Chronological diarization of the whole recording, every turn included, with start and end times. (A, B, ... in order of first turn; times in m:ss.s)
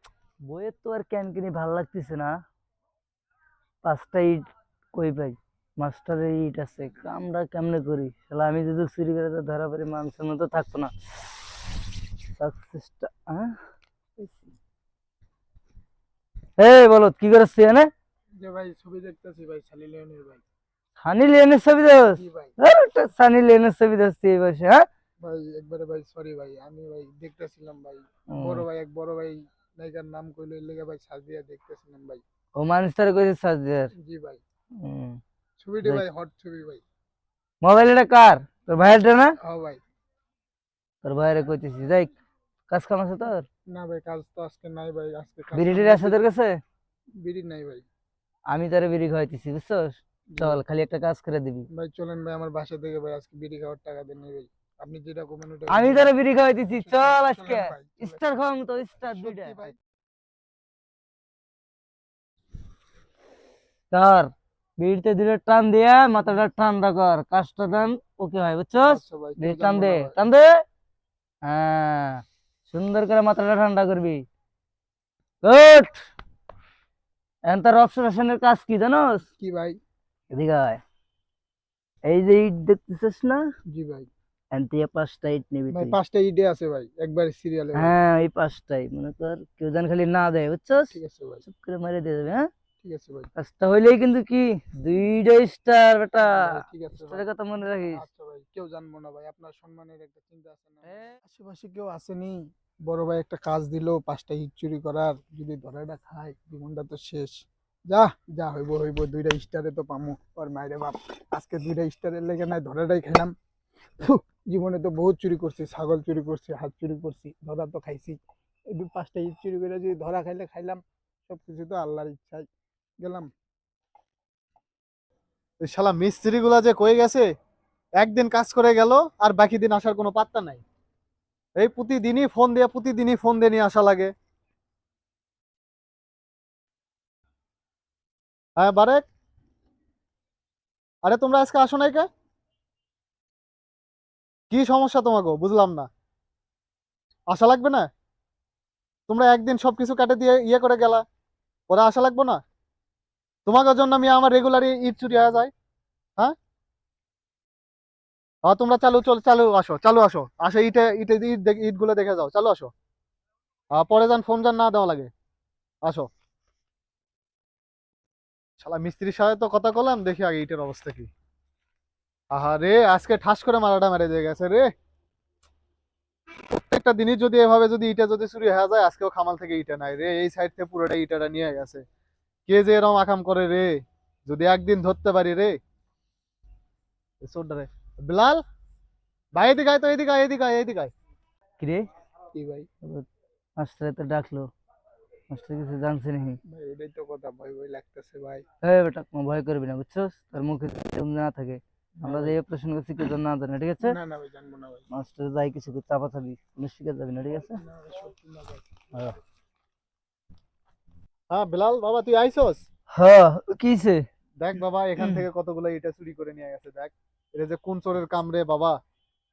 0:00.4-0:02.3 A
0:03.8-0:11.7 A
0:12.4-0:13.6 A
0:16.6-0:17.9 A
0:18.4-0:20.4 B
0:21.0-0:24.8 A
0:22.0-0:22.5 B
0:25.2-0:32.2 B
0:28.3-0:28.6 A
0:32.6-0:33.9 A
0:33.9-0:34.4 B
0:34.8-0:35.2 A
0:35.6-0:36.8 B
0:37.6-0:39.4 A
0:39.4-0:39.8 B
0:41.0-0:42.1 A
0:42.7-0:43.4 A
0:43.7-0:46.2 B
0:45.5-0:46.6 A
0:47.2-0:47.8 B
0:48.5-0:51.7 A
0:50.3-0:50.6 B
0:51.7-0:56.1 B
0:55.7-0:59.7 A
0:56.7-0:58.4 B
0:59.0-0:59.8 B
1:03.9-1:10.5 A
1:08.8-1:10.2 B
1:11.4-1:14.2 A
1:15.4-1:16.0 A
1:17.4-1:19.2 A
1:19.4-1:19.8 B
1:20.3-1:20.8 A
1:22.1-1:23.4 A
1:23.7-1:24.1 B
1:24.5-1:26.0 A
1:25.7-1:27.9 B
1:27.7-1:32.5 A
1:30.9-1:31.4 B
1:32.8-1:33.3 B
1:33.4-1:38.0 A
1:36.2-1:53.3 B
1:54.0-1:58.2 B
1:58.7-2:02.5 B
2:03.0-2:03.3 B
2:05.6-2:07.3 C
2:08.0-2:10.6 C
2:11.6-2:14.1 C
2:18.6-2:19.0 C
2:21.0-2:22.1 C
2:24.5-2:25.9 C
2:27.3-2:27.9 C
2:29.1-2:31.0 C
2:31.7-2:32.4 C
2:33.4-2:35.5 C
2:38.4-2:42.7 C
2:43.7-2:45.1 C
2:48.6-2:51.1 C
2:52.3-2:54.6 C
2:56.5-3:01.8 C
3:02.5-3:05.5 C
3:07.2-3:08.4 C
3:09.3-3:10.9 C
3:11.6-3:11.8 A
3:12.3-3:12.7 B
3:13.6-3:14.5 A
3:15.3-3:16.4 A
3:16.4-3:18.4 B
3:18.6-3:24.0 A
3:22.0-3:22.4 B
3:23.8-3:24.8 B
3:24.9-3:27.6 A
3:27.3-3:28.7 B
3:31.3-3:32.6 C
3:32.9-3:34.0 A
3:34.4-3:38.8 C
3:35.0-3:35.2 A